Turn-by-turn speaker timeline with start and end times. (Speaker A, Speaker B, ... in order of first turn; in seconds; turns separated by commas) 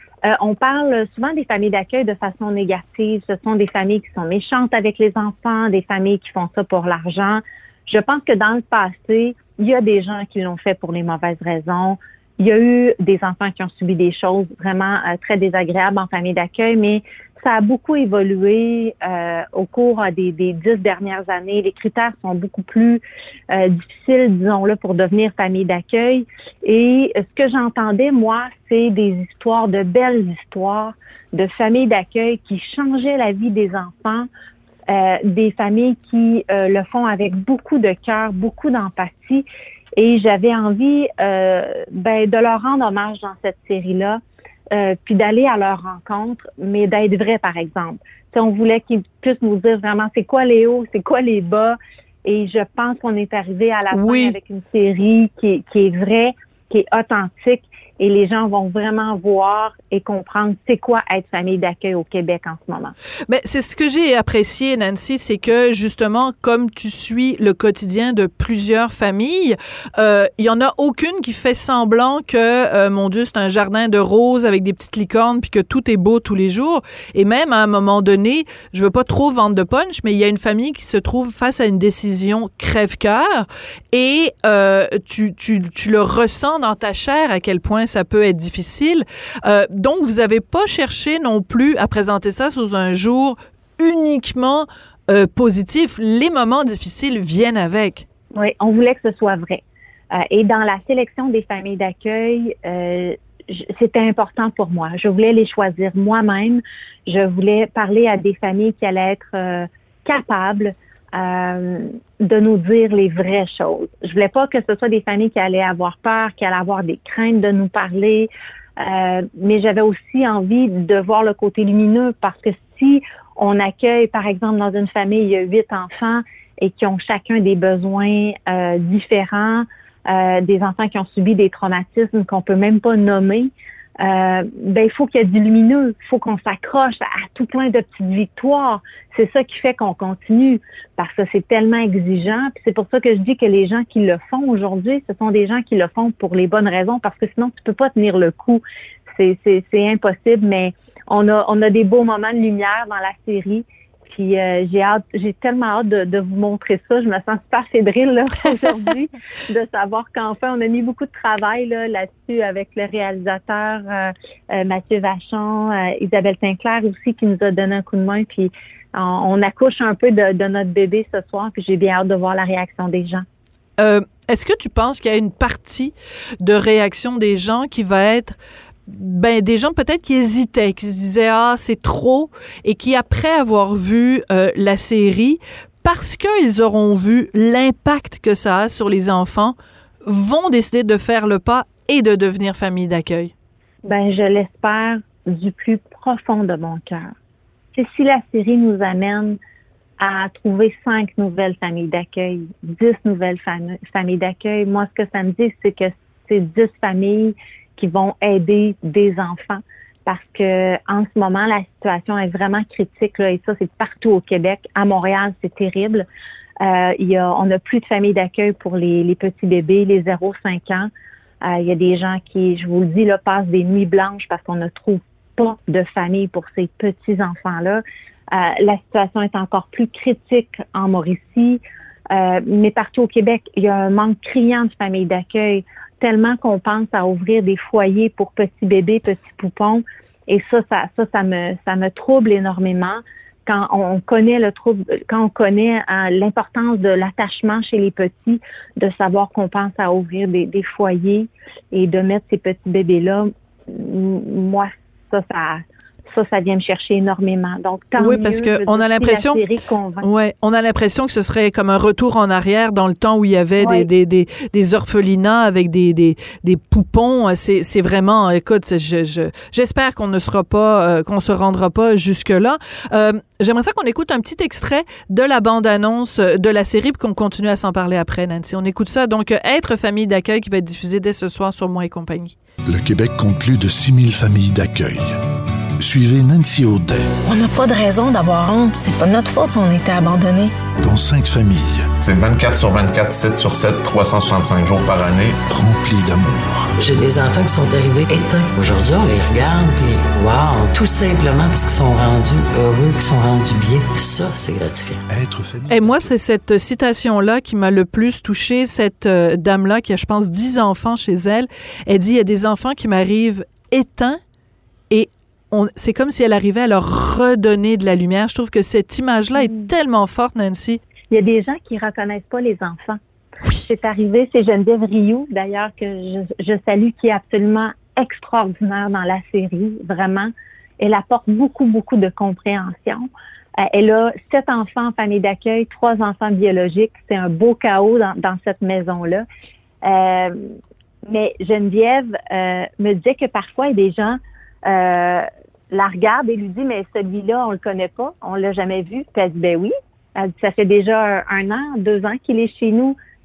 Speaker A: 0.3-34.3, Speaker A: 34.9-44.2, Speaker A: 44.7-62.9, Speaker B: 53.9-54.4, Speaker B: 63.3-98.0, Speaker A: 98.3-99.6, Speaker A: 100.1-148.6, Speaker A: 149.1-173.2, Speaker B: 173.8-193.3, Speaker A: 193.8-197.1, Speaker A: 197.7-199.4, Speaker A: 200.0-216.1, Speaker A: 216.6-220.9, Speaker A: 221.4-231.6, Speaker A: 232.1-260.1, Speaker B: 258.0-259.4, Speaker B: 260.0-282.3, Speaker A: 263.6-263.9, Speaker C: 282.7-285.2, Speaker C: 285.8-287.1, Speaker D: 287.2-290.5, Speaker C: 290.8-291.9, Speaker E: 292.0-295.4, Speaker C: 295.5-296.7, Speaker F: 296.8-305.0, Speaker C: 305.1-306.2, Speaker B: 305.7-314.2, Speaker B: 314.9-320.8, Speaker A: 319.4-319.7, Speaker A: 321.1-323.0, Speaker A: 323.6-333.1, Speaker A: 333.6-339.2, Speaker A: 339.8-340.4, Speaker A: 341.1-352.9